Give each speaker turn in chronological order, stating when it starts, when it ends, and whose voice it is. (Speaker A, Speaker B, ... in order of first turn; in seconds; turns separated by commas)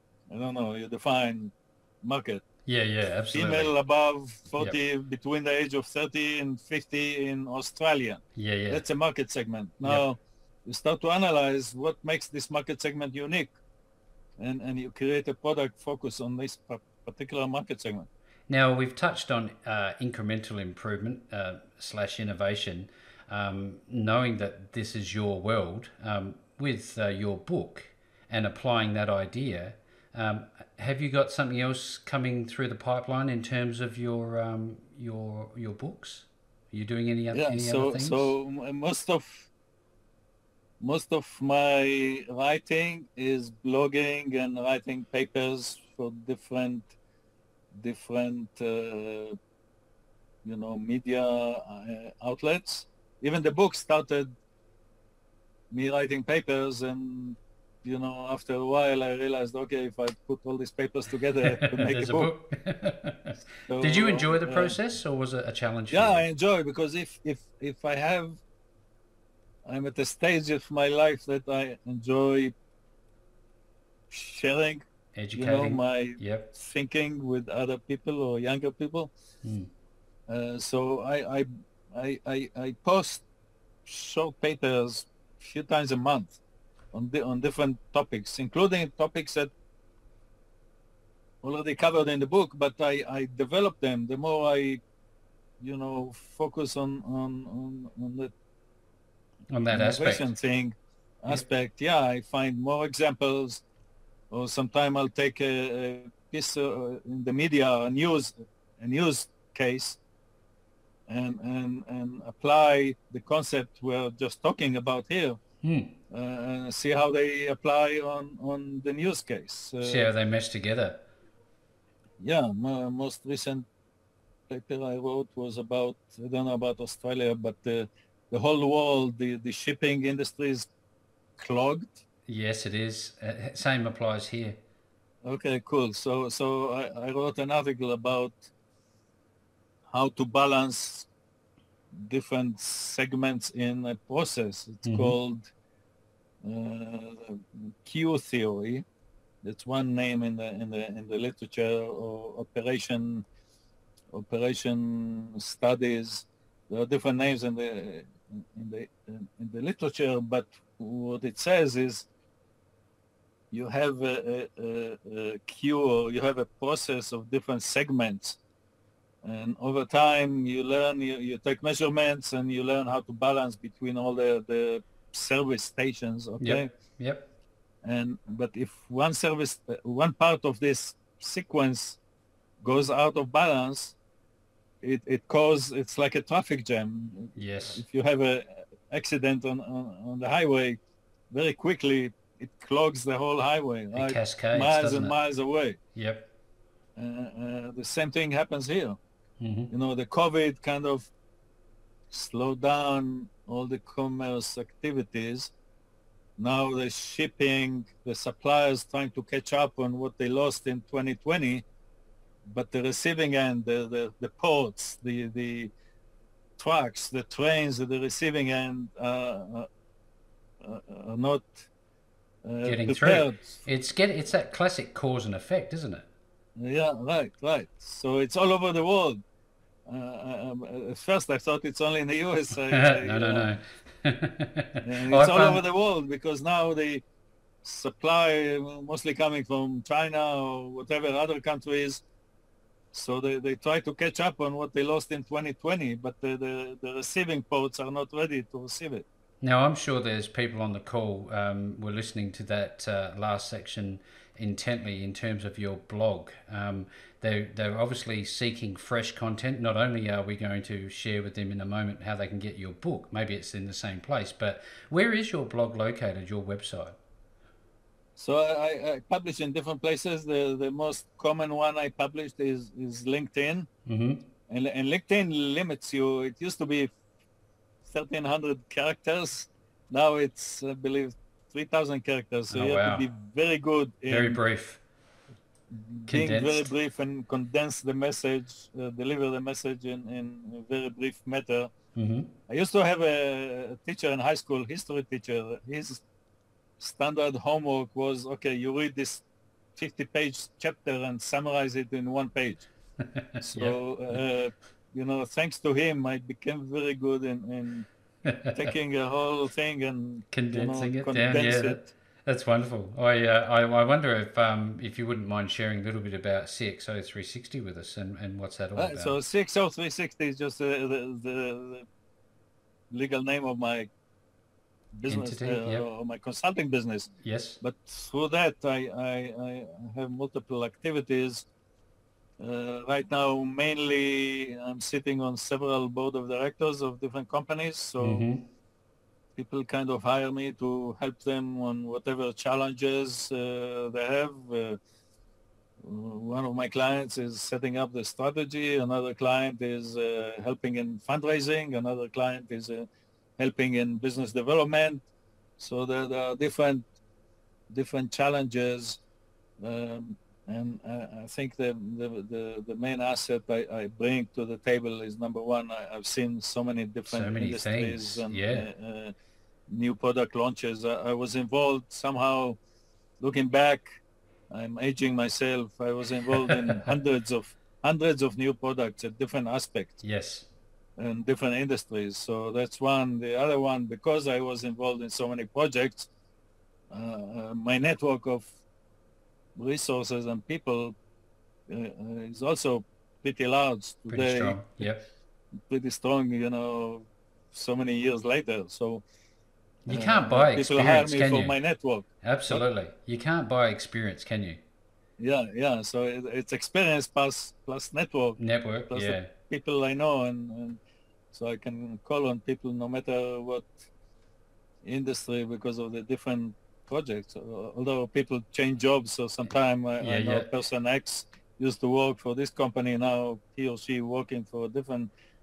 Speaker A: 0.3-2.4, Speaker B: 2.6-3.7, Speaker A: 3.3-13.5, Speaker B: 8.3-8.8, Speaker A: 14.4-18.1, Speaker B: 18.5-38.3, Speaker A: 37.3-39.5, Speaker A: 40.8-46.9, Speaker A: 47.7-49.4, Speaker A: 50.4-54.3, Speaker A: 55.7-62.3, Speaker B: 61.4-66.2, Speaker A: 63.6-64.8, Speaker A: 65.9-68.4, Speaker A: 69.6-72.5, Speaker A: 74.1-79.1, Speaker B: 75.1-76.5, Speaker B: 79.4-79.7, Speaker A: 80.3-83.2, Speaker A: 83.8-86.4, Speaker A: 86.9-89.5, Speaker A: 91.4-94.8, Speaker A: 95.6-98.3, Speaker B: 99.5-100.3, Speaker A: 99.7-103.6, Speaker A: 104.3-110.0, Speaker A: 111.1-115.4, Speaker B: 115.6-115.9, Speaker A: 116.1-120.1, Speaker B: 119.8-121.0, Speaker A: 122.2-123.7, Speaker A: 124.5-130.7, Speaker A: 131.4-132.0, Speaker B: 132.3-134.6, Speaker A: 135.2-138.5, Speaker A: 139.9-141.1, Speaker A: 141.9-145.5, Speaker B: 144.8-145.1, Speaker A: 146.4-148.8, Speaker A: 149.4-153.2, Speaker A: 154.1-162.1, Speaker A: 163.5-168.4, Speaker A: 169.2-176.7, Speaker B: 176.4-177.2, Speaker A: 177.8-182.0, Speaker A: 182.6-183.9, Speaker A: 184.8-190.8, Speaker B: 187.3-187.8, Speaker A: 191.3-195.8, Speaker B: 193.9-195.2, Speaker B: 195.9-196.3, Speaker A: 196.9-199.0, Speaker B: 199.4-199.7, Speaker A: 199.7-201.1, Speaker A: 202.1-205.5, Speaker A: 206.4-211.6, Speaker A: 212.5-215.7, Speaker A: 216.6-219.7, Speaker A: 220.6-221.7, Speaker A: 222.4-223.6, Speaker B: 222.6-226.1, Speaker A: 226.6-229.2, Speaker A: 229.8-233.5, Speaker B: 232.7-235.6, Speaker A: 234.8-237.0, Speaker A: 237.6-242.0, Speaker A: 242.9-249.1, Speaker B: 249.4-267.0, Speaker A: 268.2-273.7, Speaker B: 273.9-274.2, Speaker A: 274.5-276.9, Speaker A: 277.8-284.4, Speaker B: 282.5-283.1, Speaker B: 284.1-284.8, Speaker A: 285.7-291.7, Speaker B: 286.1-286.7, Speaker B: 291.9-292.3, Speaker A: 292.5-296.0, Speaker A: 296.8-299.2, Speaker A: 299.8-302.7, Speaker B: 303.1-303.8, Speaker A: 303.4-307.9, Speaker B: 308.2-308.7, Speaker A: 308.5-311.9, Speaker B: 310.3-319.2, Speaker A: 318.8-321.9, Speaker A: 322.9-323.9, Speaker A: 324.9-331.4, Speaker B: 325.1-325.9, Speaker B: 327.2-327.6, Speaker A: 332.4-338.3, Speaker B: 338.0-338.4, Speaker A: 339.4-344.8, Speaker A: 345.8-352.9, Speaker A: 353.4-355.0, Speaker A: 355.6-356.8, Speaker A: 357.7-359.0, Speaker A: 359.6-369.1, Speaker B: 367.1-368.7, Speaker A: 369.7-372.6, Speaker A: 373.2-380.0, Speaker B: 380.0-380.5, Speaker A: 381.0-386.1, Speaker A: 386.9-388.5, Speaker A: 389.6-390.9, Speaker A: 391.7-394.8, Speaker B: 394.1-395.0, Speaker A: 395.7-399.0, Speaker B: 399.8-401.6, Speaker A: 399.9-402.6, Speaker B: 402.2-404.6, Speaker A: 405.2-410.8, Speaker B: 408.4-409.3, Speaker A: 411.3-413.7, Speaker A: 414.8-425.1, Speaker B: 420.0-420.4